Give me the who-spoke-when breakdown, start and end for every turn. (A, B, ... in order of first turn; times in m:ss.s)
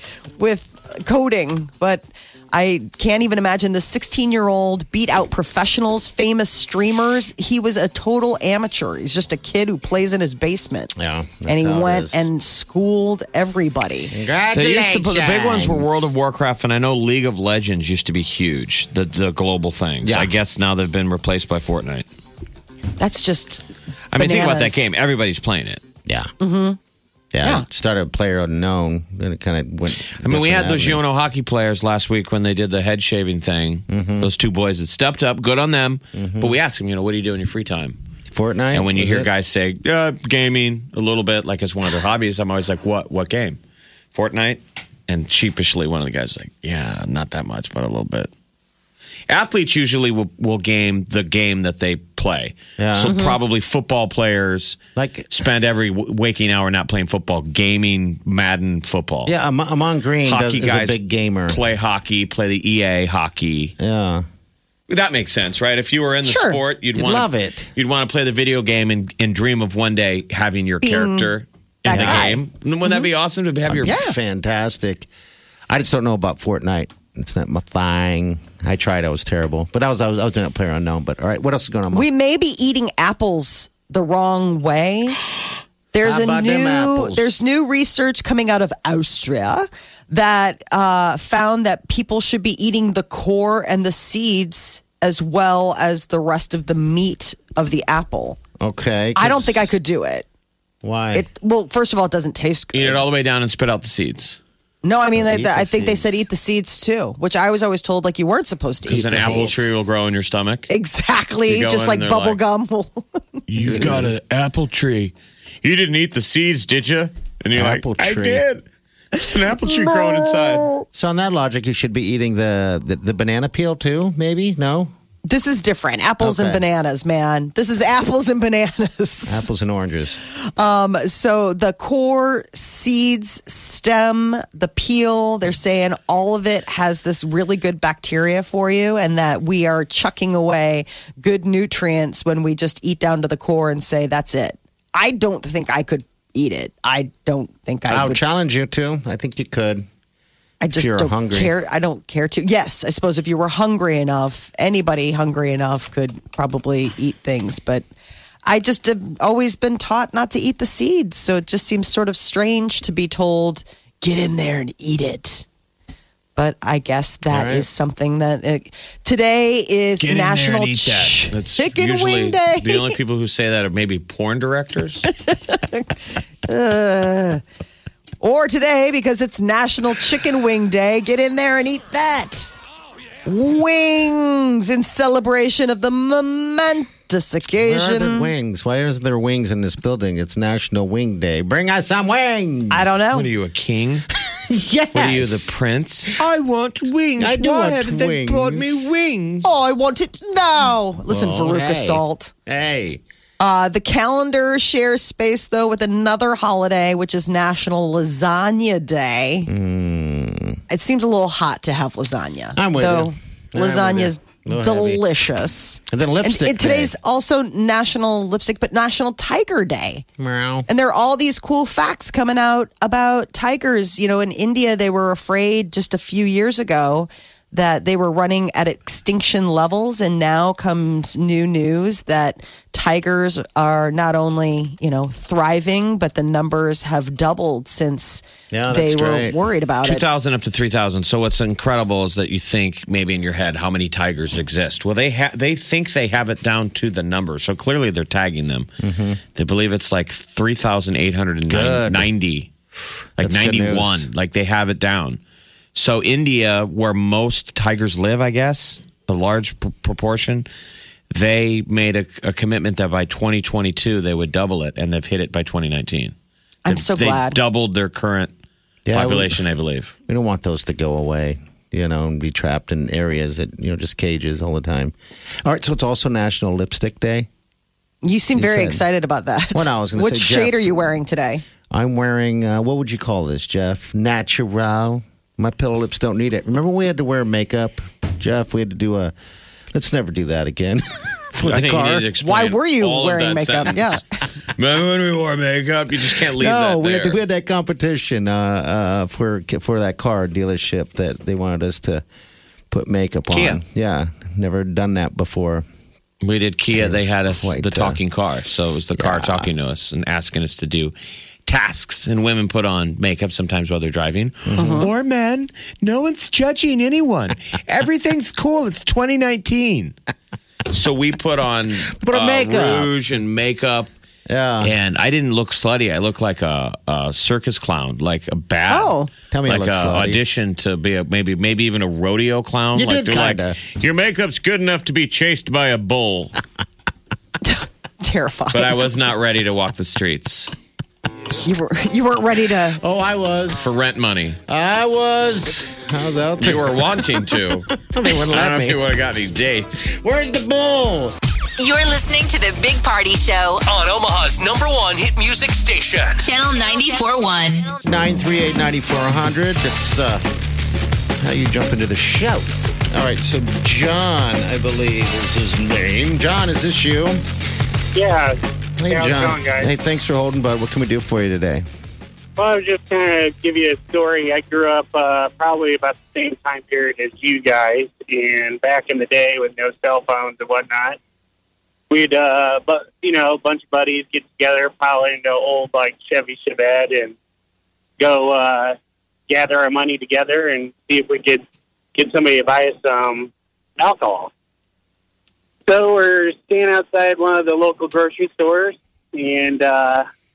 0:00.4-0:10.9 A
0:11.0-0:12.3 B
0:11.5-0:14.1 A
0:14.1-0:16.1 B
0:14.5-0:22.1 C
0:20.0-0:20.3 B
0:23.0-0:23.6 A
0:24.1-0:25.8 C
0:24.2-0:24.9 A
0:26.1-0:26.3 B
0:26.4-0:26.8 A
0:27.3-0:31.0 B
0:30.2-0:38.0 C
0:33.9-0:34.3 B
0:36.2-0:36.6 B
0:38.3-0:39.3 B
0:38.7-0:43.6 C
0:44.1-0:48.3 C
0:49.3-0:59.3 C
0:52.8-0:53.2 B
0:53.1-0:53.4 A
0:55.0-0:55.3 B
0:59.3-1:01.6 B
1:00.2-1:03.8 C
1:03.8-1:04.2 B
1:04.9-1:14.0 C
1:06.2-1:06.6 A
1:06.9-1:07.7 B
1:10.8-1:11.3 A
1:11.9-1:12.4 A
1:11.9-1:12.4 B
1:13.7-1:15.1 B
1:13.8-1:14.2 A
1:15.7-1:22.1 B
1:21.9-1:25.2 A
1:25.9-1:38.4 A
1:26.0-1:27.3 B
1:38.6-1:39.7 B
1:39.2-1:40.3 A
1:40.8-1:41.3 B
1:41.1-1:43.0 A
1:42.7-1:44.4 C
1:44.8-1:49.7 A
1:45.1-1:46.2 B
1:48.9-1:50.7 C
1:50.7-1:53.4 A
1:51.5-1:52.4 C
1:53.5-2:00.8 C
1:53.6-1:54.1 B
1:57.6-1:58.5 B
1:59.7-2:00.8 A
2:00.9-2:04.9 B
2:05.2-2:09.5 A
2:06.2-2:06.6 B
2:09.3-2:10.2 B
2:10.2-2:28.2 A
2:27.9-2:29.9 B
2:30.6-2:37.8 A
2:30.7-2:31.5 B
2:38.5-2:45.5 A
2:46.4-2:53.0 A
2:47.3-2:47.7 B
2:50.0-2:55.1 C
2:55.1-2:57.4 A
2:58.2-3:02.5 A
3:03.2-3:08.3 A
3:07.6-3:13.0 B
3:12.7-3:13.3 A
3:13.1-3:14.1 C
3:14.3-3:15.6 B
3:14.9-3:19.5 C
3:17.2-3:18.9 B
3:19.4-3:22.3 A
3:21.1-3:23.0 B
3:23.4-3:29.5 A
3:29.5-3:30.6 B
3:30.7-3:40.0 A
3:32.6-3:35.0 B
3:35.9-3:36.9 B
3:40.2-3:40.7 B
3:40.7-4:00.0 A
3:58.5-3:59.4 B
3:59.8-4:08.7 C
4:08.8-4:09.2 B
4:09.4-4:12.5 C
4:11.5-4:12.1 B
4:13.2-4:15.2 C
4:13.2-4:14.1 B
4:15.8-4:20.5 C
4:21.1-4:26.1 C
4:26.6-4:27.4 A
4:26.7-4:28.3 C
4:28.9-4:29.4 B
4:28.9-4:29.9 C
4:30.1-4:37.3 B
4:38.0-4:41.4 A
4:38.4-4:38.8 B
4:39.5-4:40.9 B
4:41.7-4:49.1 B
4:49.7-4:52.1 B
4:51.4-4:57.2 C
4:52.2-4:54.3 A
4:56.3-5:02.0 B
5:02.7-5:05.7 B
5:03.3-5:03.6 C
5:06.2-5:10.9 C
5:06.7-5:08.0 B
5:09.0-5:09.5 B
5:11.5-5:19.9 C
5:14.5-5:14.9 B
5:14.5-5:14.9 A
5:20.7-5:23.9 C
5:21.9-5:22.9 B
5:24.3-5:24.7 B
5:24.6-5:29.0 C
5:28.7-5:29.1 A
5:29.3-5:30.2 B
5:29.5-5:36.4 C
5:32.7-5:33.6 B
5:37.4-5:38.8 A
5:38.5-5:40.5 C
5:41.4-5:42.8 A
5:42.8-5:43.7 B
5:43.6-5:44.4 C
5:44.5-5:48.8 B
5:46.4-5:47.7 C
5:48.3-5:49.9 C
5:49.9-5:51.2 B
5:51.6-5:53.6 D
5:53.7-5:56.2 E
5:56.2-5:57.8 D
5:57.8-6:00.2 B
6:01.2-6:07.2 B
6:08.0-6:08.4 F
6:08.8-6:11.6 B
6:08.9-6:09.7 F
6:12.4-6:21.0 F
6:21.9-6:27.2 F
6:28.0-6:28.8 F
6:29.3-6:31.4 F
6:32.0-6:34.3 F
6:35.7-6:40.0 F